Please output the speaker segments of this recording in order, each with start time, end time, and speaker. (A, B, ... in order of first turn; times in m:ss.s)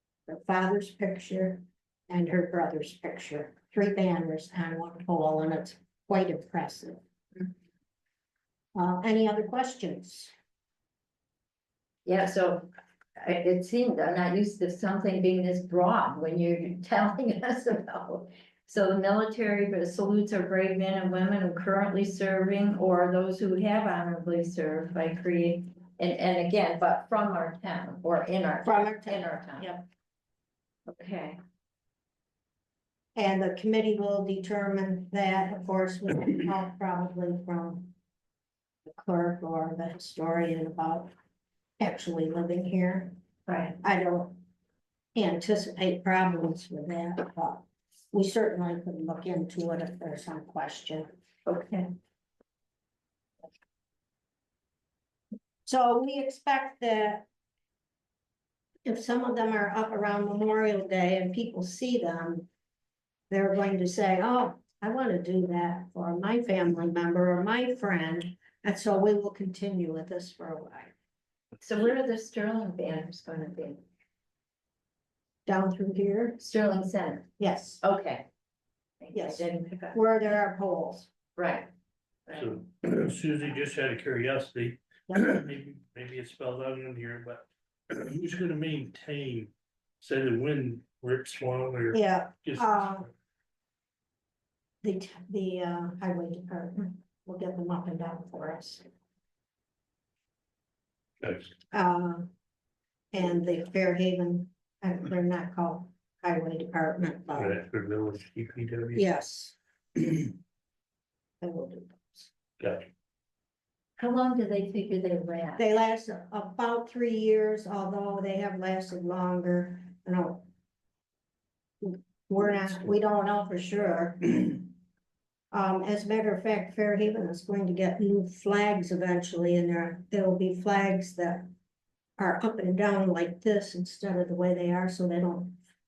0:00.3-0:07.0 A
0:08.7-0:10.3 A
0:12.0-0:29.8 B
0:28.6-0:29.8 A
0:30.9-0:31.4 B
0:33.2-0:37.9 A
0:38.8-0:41.1 A
0:41.8-0:43.2 A
0:43.5-0:43.8 B
0:43.8-0:44.4 A
0:45.2-0:51.1 A
0:51.4-0:51.9 B
0:55.7-0:57.3 A
0:58.8-1:02.5 A
1:03.3-1:10.9 A
1:11.6-1:13.8 B
1:15.4-1:16.4 A
1:16.4-1:18.2 B
1:17.4-1:17.8 A
1:19.0-1:20.0 B
1:19.1-1:21.1 A
1:21.4-1:21.7 B
1:22.3-1:22.6 B
1:22.3-1:32.7 C
1:31.9-1:33.1 A
1:34.8-1:38.8 A
1:41.2-1:41.5 C
1:41.7-1:42.3 A
1:43.1-1:47.6 A
1:47.4-1:49.0 C
1:48.9-1:50.3 A
1:51.4-1:52.3 A
1:52.6-1:52.9 C
1:54.0-1:55.6 B
1:55.6-2:00.5 A
2:01.8-2:04.7 A
2:05.5-2:11.5 A
2:12.2-2:15.6 A